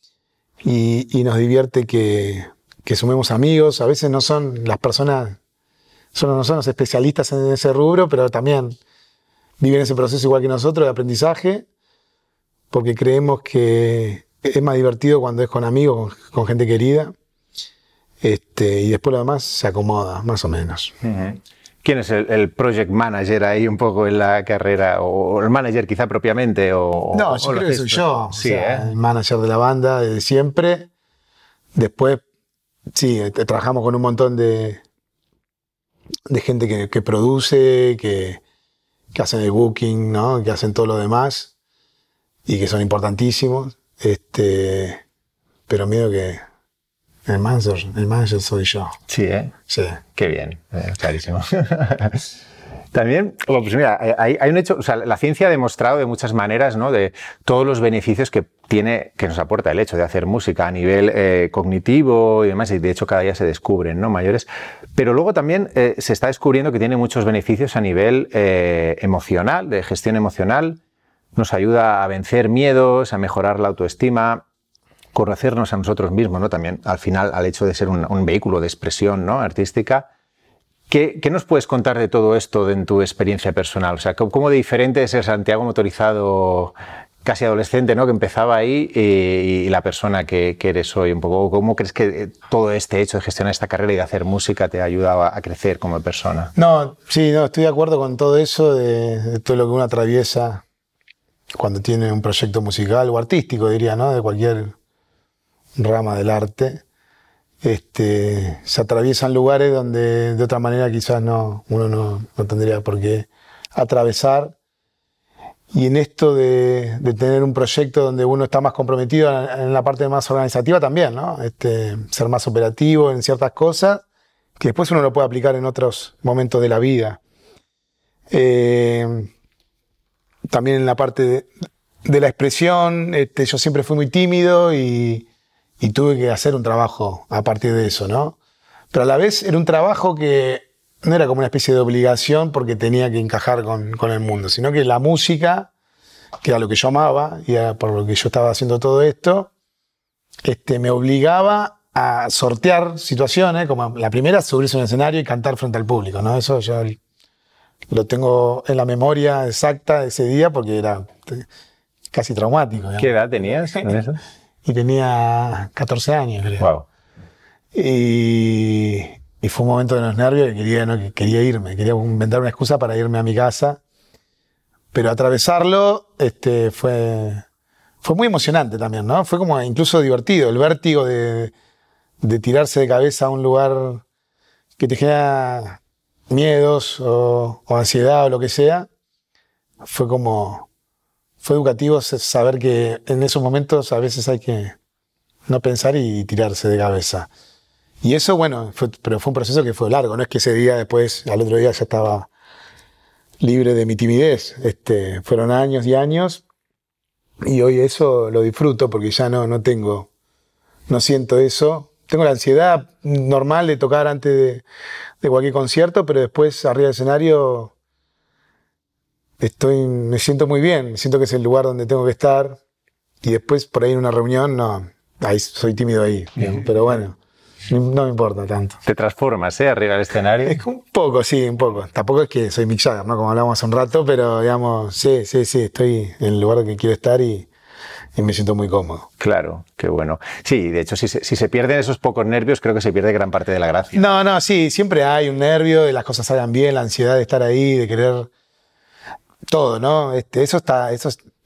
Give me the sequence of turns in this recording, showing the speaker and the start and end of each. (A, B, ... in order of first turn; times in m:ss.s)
0:00.6-0:05.4 A
0:06.1-0:08.8 A
0:09.6-0:11.7 A
0:12.7-0:17.1 A
0:18.2-0:20.9 A
0:21.0-0:28.9 B
0:27.1-0:30.9 A
0:31.8-0:32.2 A
0:32.9-0:34.8 A
0:36.3-0:38.4 A
0:39.1-0:41.5 A
0:42.5-0:45.0 A
0:45.7-0:46.4 A
0:47.3-0:49.0 A
0:49.1-0:49.5 B
0:49.7-0:50.0 A
0:50.2-0:52.3 B
0:52.9-1:10.8 B
1:11.4-1:14.4 B
1:15.1-1:20.1 B
1:20.9-1:36.5 B
1:36.6-1:40.6 A
1:41.6-1:44.7 A
1:45.8-1:46.8 A
1:47.6-1:54.5 A
1:55.7-2:04.0 A
2:04.6-2:07.2 A
2:08.3-2:09.3 A
2:10.5-2:11.5 A
2:12.0-2:15.3 A
2:15.8-2:18.4 A
2:18.9-2:25.7 A
2:26.4-2:29.5 A
2:30.4-2:37.0 A
2:37.9-2:41.4 A
2:42.1-2:43.2 A
2:43.0-2:44.2 B
2:44.6-2:46.7 A
2:46.6-2:46.9 B
2:47.7-2:53.8 A
2:54.9-2:57.4 A
2:58.0-3:01.5 A
3:02.2-3:04.0 A
3:04.8-3:08.9 A
3:09.8-3:10.7 A
3:11.4-3:14.8 A
3:15.5-3:17.3 A
3:18.0-3:22.3 A
3:23.4-3:26.4 A
3:27.4-3:30.1 A
3:30.9-3:34.6 A
3:35.2-3:37.7 A
3:39.4-3:42.6 A
3:43.2-3:47.2 A
3:47.7-3:48.8 A
3:48.8-3:50.6 B
3:50.4-3:57.5 A
3:58.2-3:59.1 A
3:59.2-4:04.0 B
4:03.9-4:08.3 A
4:09.5-4:11.2 A